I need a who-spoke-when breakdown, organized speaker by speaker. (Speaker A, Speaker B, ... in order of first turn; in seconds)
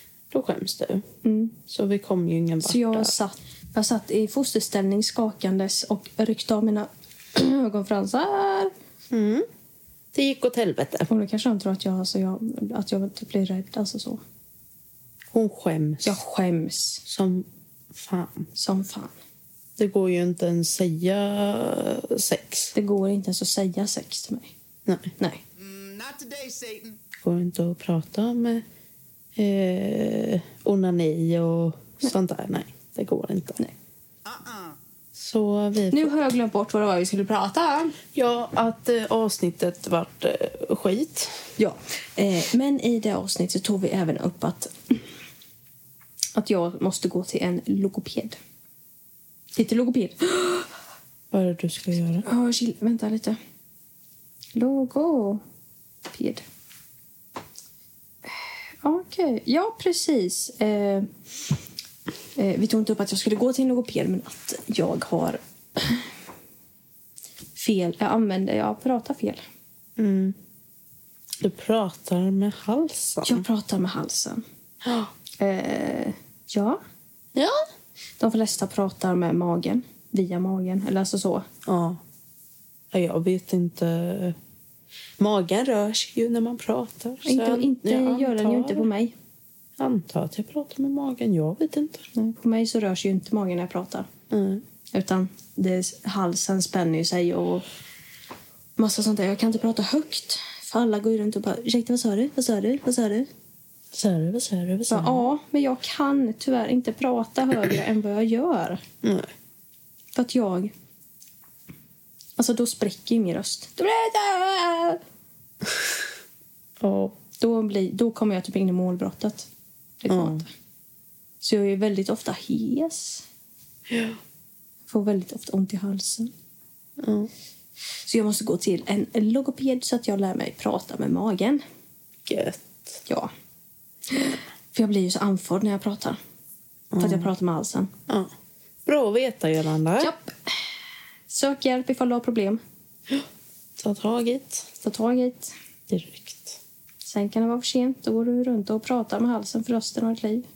Speaker A: 0.3-1.1, 1.6-3.1, 9.1-9.5, 10.1-11.1, 15.3-16.2, 17.1-18.5, 19.8-22.7, 24.9-25.1, 27.2-28.6, 29.4-33.6, 35.1-36.2, 38.1-41.5, 51.3-52.2, 70.0-70.4, 71.4-73.5, 74.8-75.1, 77.3-77.7, 81.6-82.0, 82.9-84.4, 85.2-88.9, 89.8-92.1, 94.3-94.6, 103.9-105.3, 109.0-109.3, 116.8-117.2, 120.1-120.4, 123.9-124.2, 127.0-127.3, 132.3-133.0, 136.9-137.3, 138.1-138.3, 138.9-140.1, 143.1-144.7, 145.9-146.6
Speaker B: 1.2-1.6, 2.6-8.7, 11.1-14.2, 16.0-17.0, 18.6-19.1, 22.7-24.5, 35.9-38.0, 41.6-45.0, 46.4-48.4, 49.6-50.7, 52.2-53.4, 54.5-55.4, 56.1-56.4, 58.8-61.1, 62.4-66.1, 67.6-69.4, 73.2-74.4, 75.4-76.8, 78.2-81.5, 87.2-89.1, 92.1-94.1, 94.9-97.6, 98.8-103.3, 104.9-108.8, 110.1-110.7, 112.4-115.0, 117.4-119.5, 120.0-120.5, 121.4-123.2, 124.9-126.3, 128.1-131.6, 133.1-133.3, 134.1-136.2, 137.0-137.9, 140.0-140.6, 141.3-142.6, 144.8-145.5, 147.0-150.4
Speaker C: 25.6-27.0, 34.2-34.8